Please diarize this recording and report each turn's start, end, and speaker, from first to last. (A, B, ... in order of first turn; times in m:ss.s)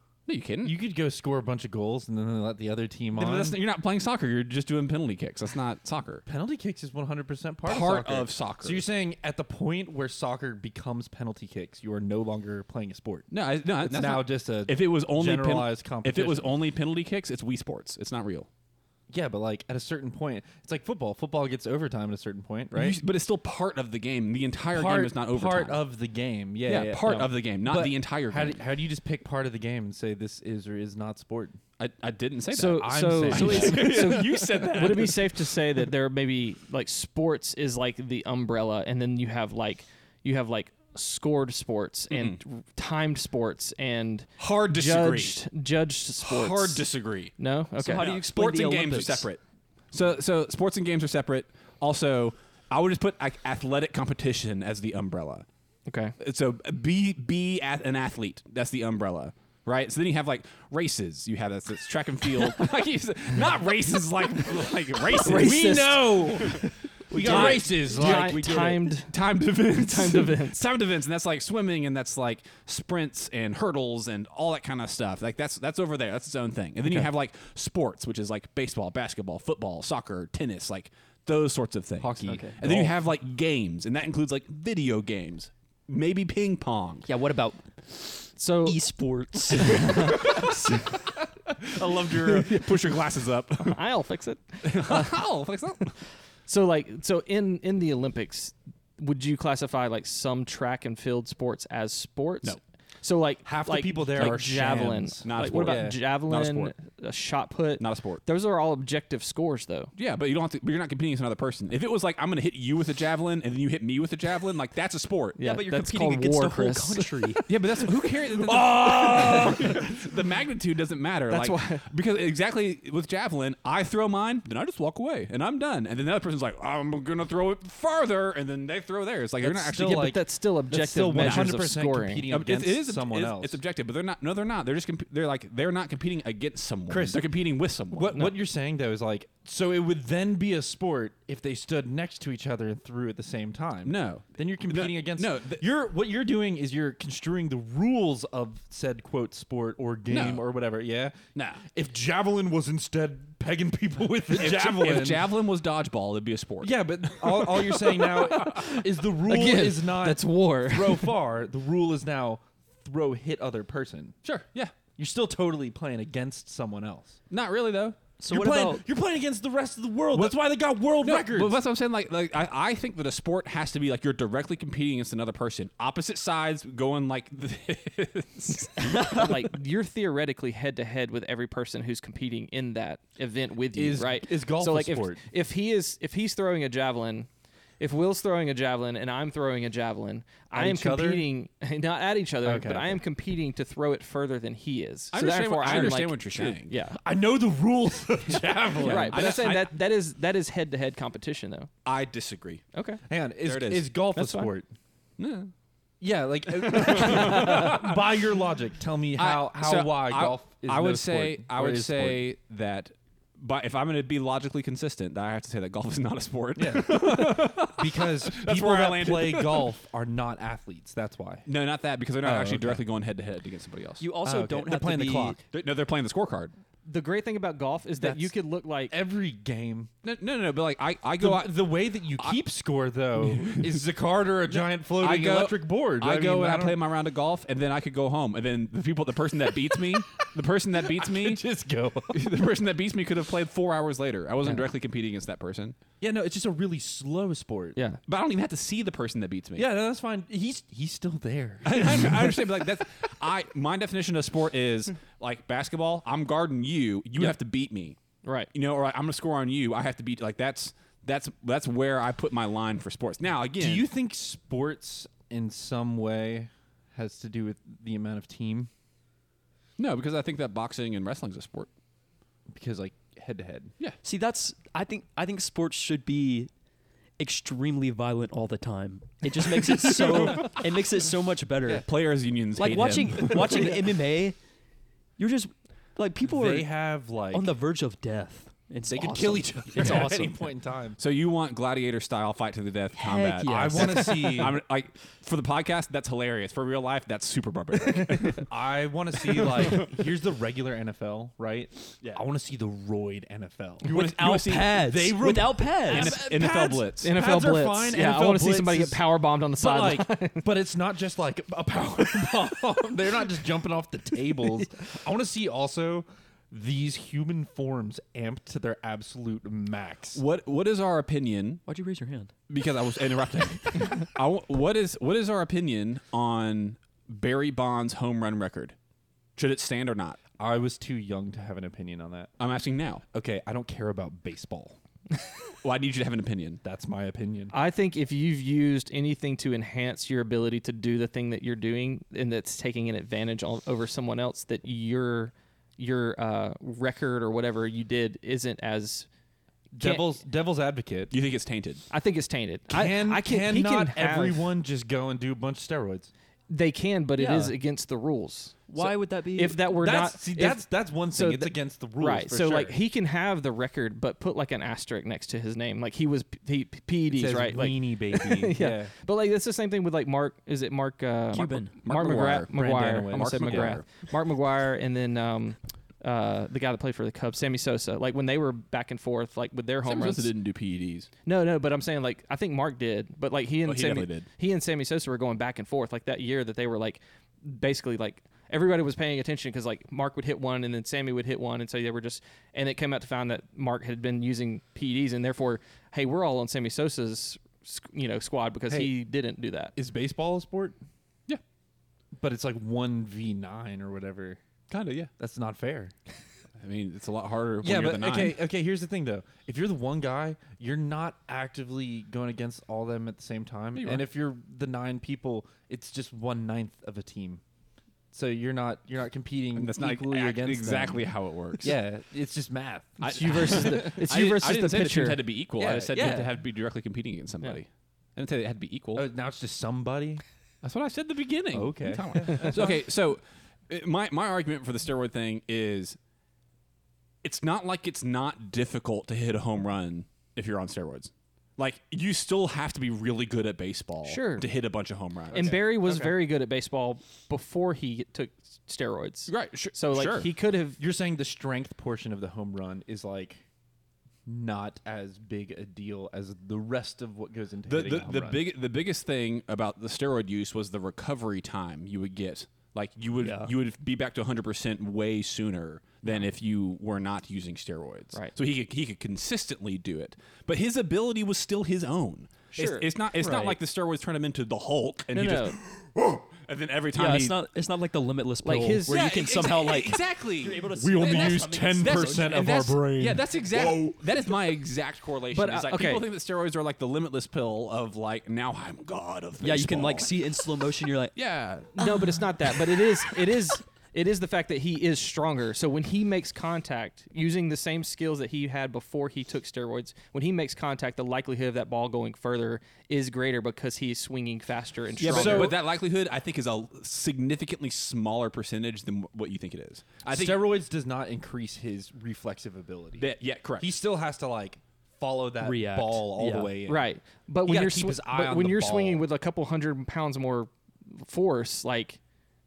0:00.3-0:00.8 A
0:00.6-0:03.6 B
0:03.1-0:06.2 A
0:06.2-0:13.3 B
0:07.6-0:08.8 A
0:13.3-0:18.5 A
0:13.8-0:16.6 B
0:19.1-0:23.0 B
0:22.7-0:25.8 A
0:24.7-0:31.6 B
0:26.6-0:28.6 A
0:31.8-0:35.5 A
0:32.5-0:46.8 C
0:32.7-0:34.6 B
0:42.1-0:42.4 A
0:44.4-0:45.4 A
0:46.2-0:49.4 A
0:47.4-0:48.1 C
0:47.8-0:49.3 D
0:49.9-0:55.4 A
0:55.9-0:56.1 C
0:56.2-1:27.1 A
1:05.1-1:10.6 C
1:05.2-1:08.6 B
1:07.1-1:08.8 D
1:22.0-1:22.9 B
1:22.2-1:22.6 D
1:27.1-1:30.4 D
1:28.4-1:28.8 C
1:29.6-1:30.9 C
1:30.1-1:30.7 A
1:31.5-1:33.8 A
1:32.2-1:32.9 C
1:33.6-1:35.2 C
1:34.6-1:35.9 A
1:36.4-1:49.9 C
1:43.4-1:46.0 B
1:44.2-1:44.5 A
1:45.2-1:46.7 A
1:47.8-1:48.2 A
1:50.0-1:55.4 A
1:55.4-1:57.4 C
1:55.4-1:57.5 D
1:57.5-2:10.1 A
1:58.4-1:59.9 B
2:01.3-2:01.8 C
2:09.4-2:13.6 B
2:09.7-2:12.2 C
2:11.2-2:11.7 A
2:12.3-2:18.3 A
2:16.9-2:17.3 B
2:17.9-2:35.3 B
2:23.8-2:25.6 A
2:30.1-2:30.4 A
2:31.3-2:31.6 A
2:34.3-2:38.6 A
2:36.6-2:44.2 B
2:38.4-2:41.2 C
2:44.2-2:44.7 A
2:44.9-2:47.2 B
2:47.3-2:48.0 A
2:48.2-2:48.8 D
2:48.3-2:51.6 B
2:50.1-2:50.4 A
2:51.0-2:59.3 A
2:59.0-3:07.3 C
3:03.7-3:05.2 B
3:07.8-3:17.0 C
3:10.5-3:11.3 B
3:12.4-3:13.0 B
3:15.1-3:16.7 A
3:15.7-3:15.9 B
3:17.0-3:19.5 B
3:18.7-3:19.7 A
3:18.8-3:21.7 C
3:21.8-3:22.6 A
3:22.7-3:23.0 C
3:23.1-3:24.7 B
3:23.4-3:23.9 A
3:24.1-3:24.5 C
3:25.2-3:25.5 A
3:26.0-3:32.3 B
3:26.6-3:28.0 A
3:27.1-3:27.4 C
3:29.2-3:39.7 A
3:36.6-3:41.5 B
3:41.4-3:44.0 A
3:42.2-3:42.8 B
3:44.0-3:45.4 D
3:44.2-3:45.4 B
3:45.5-3:46.5 A
3:46.8-3:48.9 C
3:48.0-3:48.3 B
3:48.9-3:49.9 B
3:50.0-3:51.6 A
3:51.2-3:56.8 B
3:52.2-3:52.4 A
3:53.2-3:53.8 A
3:54.5-4:01.4 A
4:00.8-4:02.3 B
4:02.1-4:05.8 A
4:06.0-4:07.8 B
4:08.0-4:09.7 A
4:09.6-4:12.7 B
4:11.6-4:18.0 A
4:18.2-4:18.5 C
4:18.5-4:23.9 A
4:23.6-4:28.7 B
4:29.8-4:31.7 A
4:32.5-4:33.7 B
4:34.0-4:36.5 D
4:37.2-4:41.9 D
4:39.8-4:40.5 A
4:40.0-4:40.4 B
4:41.8-4:43.8 A
4:42.6-4:44.4 D
4:43.2-4:43.8 B
4:45.2-4:46.7 D
4:46.2-4:47.5 B
4:47.3-4:50.4 D
4:48.9-4:51.0 B
4:49.8-4:50.3 A
4:51.0-4:58.5 A
4:53.0-4:54.5 D
4:53.4-4:54.6 B
4:58.4-5:03.9 B
4:59.4-4:59.9 A
5:03.8-5:06.2 D
5:03.8-5:04.8 A
5:04.7-5:09.0 B
5:05.9-5:07.1 A
5:07.0-5:10.4 C
5:09.6-5:20.2 B
5:20.1-5:21.6 A
5:21.7-5:22.3 D
5:22.5-5:28.7 A
5:29.4-5:30.2 A
5:30.4-5:32.3 B
5:32.4-5:33.0 A
5:33.1-5:34.8 B
5:35.6-5:36.6 A
5:36.6-5:37.5 B
5:37.5-5:49.1 C
5:49.7-5:51.1 B
5:49.8-5:50.1 C
5:51.1-5:51.8 A
5:51.9-5:54.4 C
5:52.7-5:56.1 B
5:56.5-6:20.3 C
5:57.2-5:57.5 D
5:58.7-5:59.6 D
5:59.6-6:02.7 B
6:07.1-6:08.9 B
6:11.3-6:11.7 D
6:11.8-6:13.8 A
6:12.5-6:13.8 B
6:19.8-6:21.1 A
6:21.2-6:39.7 C
6:23.6-6:24.3 A
6:38.7-6:38.9 B
6:39.7-6:40.8 B
6:42.2-6:44.4 B
6:44.7-6:45.1 A
6:45.2-6:45.9 B
6:46.6-6:48.4 A
6:47.6-6:57.4 B
6:53.7-6:54.0 A
6:58.1-7:04.0 B
6:59.5-7:01.8 A
7:03.0-7:09.0 A
7:03.0-7:05.2 C
7:05.6-7:06.3 B
7:08.9-7:10.2 B
7:10.6-7:16.0 A
7:11.5-7:12.8 B
7:17.2-7:25.6 A
7:24.0-7:24.4 C
7:25.3-7:26.2 B
7:25.3-7:30.8 C
7:29.3-7:30.3 A
7:30.8-7:33.4 B
7:34.2-7:38.5 B
7:37.6-7:57.4 A
7:52.5-7:52.8 C
7:55.1-7:55.6 C
7:56.9-8:02.6 D
7:58.4-7:59.0 C
7:58.9-8:10.1 A
8:00.7-8:04.0 B
8:05.3-8:06.0 C
8:09.4-8:11.1 D
8:11.2-8:11.9 A
8:11.8-8:25.5 C
8:25.0-8:30.5 A
8:25.0-8:25.6 B
8:30.0-8:36.9 B
8:33.0-8:33.7 A
8:35.4-8:36.5 D
8:36.6-8:42.0 C
8:37.4-8:39.0 B